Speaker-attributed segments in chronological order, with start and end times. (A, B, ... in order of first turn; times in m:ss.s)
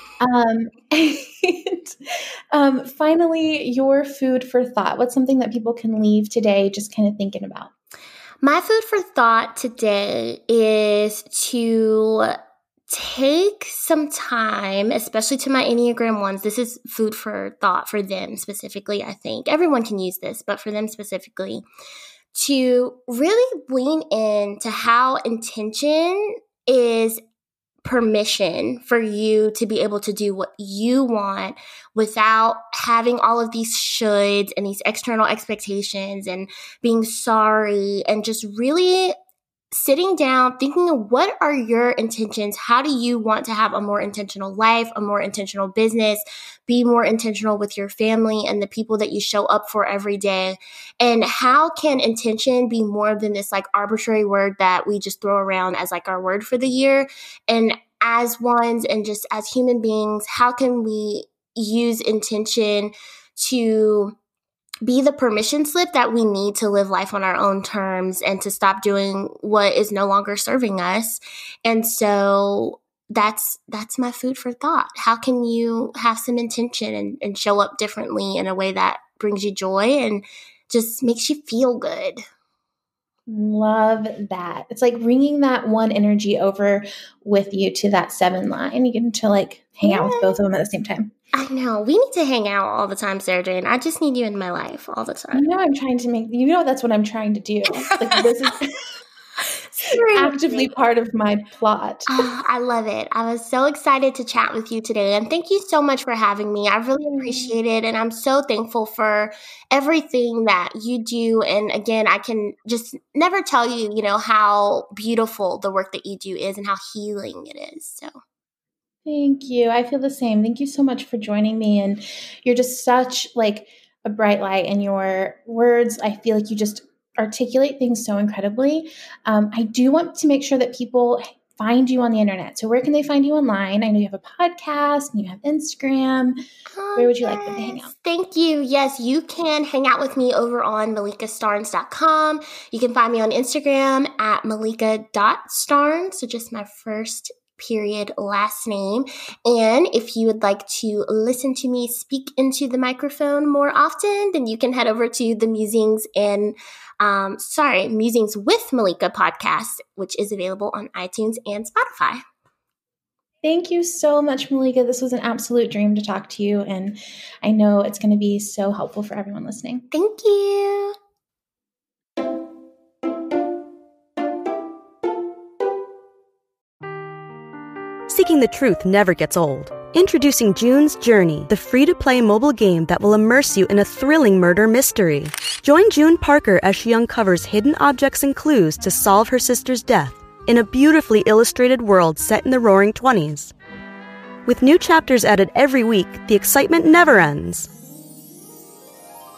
0:00.2-0:07.7 A
0:08.4-0:12.4 B
0:12.9-0:21.6 B
0:22.3-0:27.2 B
0:27.8-0:39.1 B
0:39.7-1:04.1 B
1:04.8-1:22.2 B
1:23.3-1:31.1 A
1:29.8-1:30.4 B
1:31.3-1:35.4 B
1:35.3-1:38.9 A
1:37.9-1:38.2 B
1:39.7-1:40.7 B
1:40.1-1:42.2 A
1:42.1-1:58.1 B
1:47.0-1:47.5 A
1:59.0-2:16.4 A
2:16.7-2:42.2 B
2:17.0-2:17.9 A
2:43.4-2:49.8 A
2:49.9-2:51.0 B
2:58.1-3:13.5 C
3:14.4-3:17.7 C